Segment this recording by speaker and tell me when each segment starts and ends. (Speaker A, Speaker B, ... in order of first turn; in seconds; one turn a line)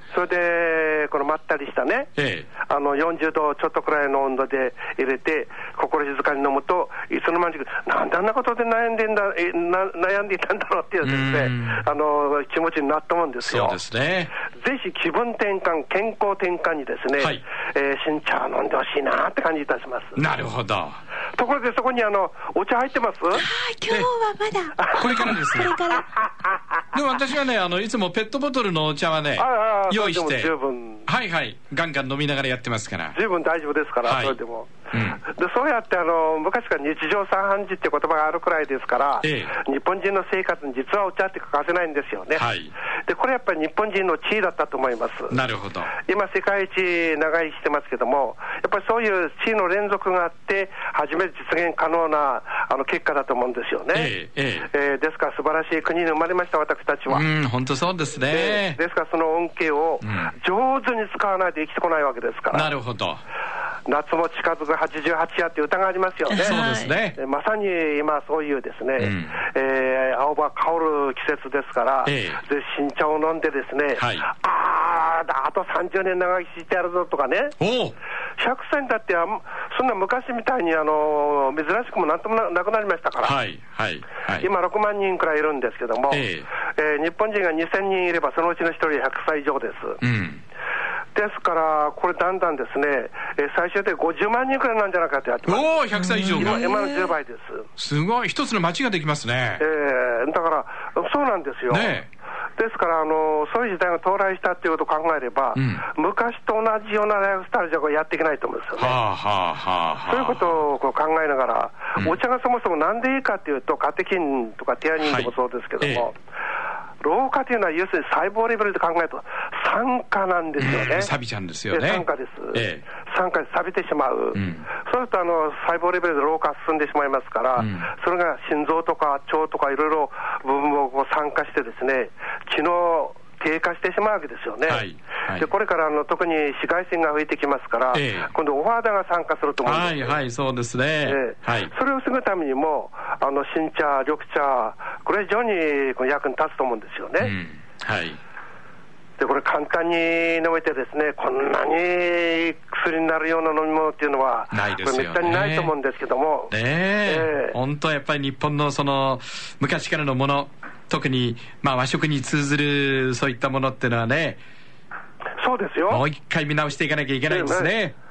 Speaker A: 0.1-13.8
Speaker B: 2.2-2.5
Speaker B: 11.0-11.8
Speaker B: 13.4-14.3
Speaker A: 14.5-20.2
Speaker B: 20.1-21.0
Speaker A: 21.4-23.4
Speaker C: 23.3-26.1
Speaker A: 24.8-26.3
Speaker B: 24.9-25.8
Speaker B: 26.9-30.5
Speaker A: 29.4-31.1
Speaker B: 31.1-33.2
Speaker A: 33.1-42.5
Speaker B: 34.0-34.4
Speaker B: 34.9-35.2
Speaker B: 39.2-39.5
Speaker B: 42.3-42.8
Speaker A: 43.0-45.4
Speaker B: 45.3-45.9
Speaker A: 45.9-54.1
Speaker B: 53.9-54.7
Speaker A: 54.6-57.2
Speaker B: 57.1-58.8
Speaker A: 58.3-62.7
Speaker B: 60.0-60.3
Speaker B: 62.5-63.2
Speaker A: 63.9-66.6
Speaker B: 66.3-67.2
Speaker C: 66.4-66.9
Speaker A: 67.1-77.6
Speaker B: 69.0-69.4
Speaker B: 72.1-72.4
Speaker B: 74.0-74.3
Speaker B: 77.6-78.0
Speaker A: 78.4-83.4
Speaker B: 83.2-84.5
Speaker A: 84.4-90.0
Speaker B: 86.1-86.5
Speaker B: 90.0-90.4
Speaker A: 91.1-97.7
Speaker B: 95.5-97.0
Speaker C: 96.1-96.5
Speaker B: 97.8-99.6
Speaker A: 99.6-102.0
Speaker B: 101.7-102.1
Speaker A: 102.6-109.0
Speaker B: 105.6-105.8
Speaker B: 108.8-110.6
Speaker A: 110.1-116.2
Speaker B: 115.0-116.1
Speaker A: 117.0-121.1
Speaker B: 120.6-122.8
Speaker A: 121.7-140.2
Speaker B: 124.3-124.6
Speaker B: 127.6-127.9
Speaker B: 134.7-135.5
Speaker B: 137.9-138.3
Speaker B: 139.6-141.7
Speaker A: 141.0-147.3
Speaker B: 147.2-148.2
Speaker A: 149.2-157.6
Speaker B: 154.5-155.7
Speaker B: 156.5-164.4
Speaker A: 165.4-166.1
Speaker B: 165.9-167.9
Speaker A: 167.3-167.8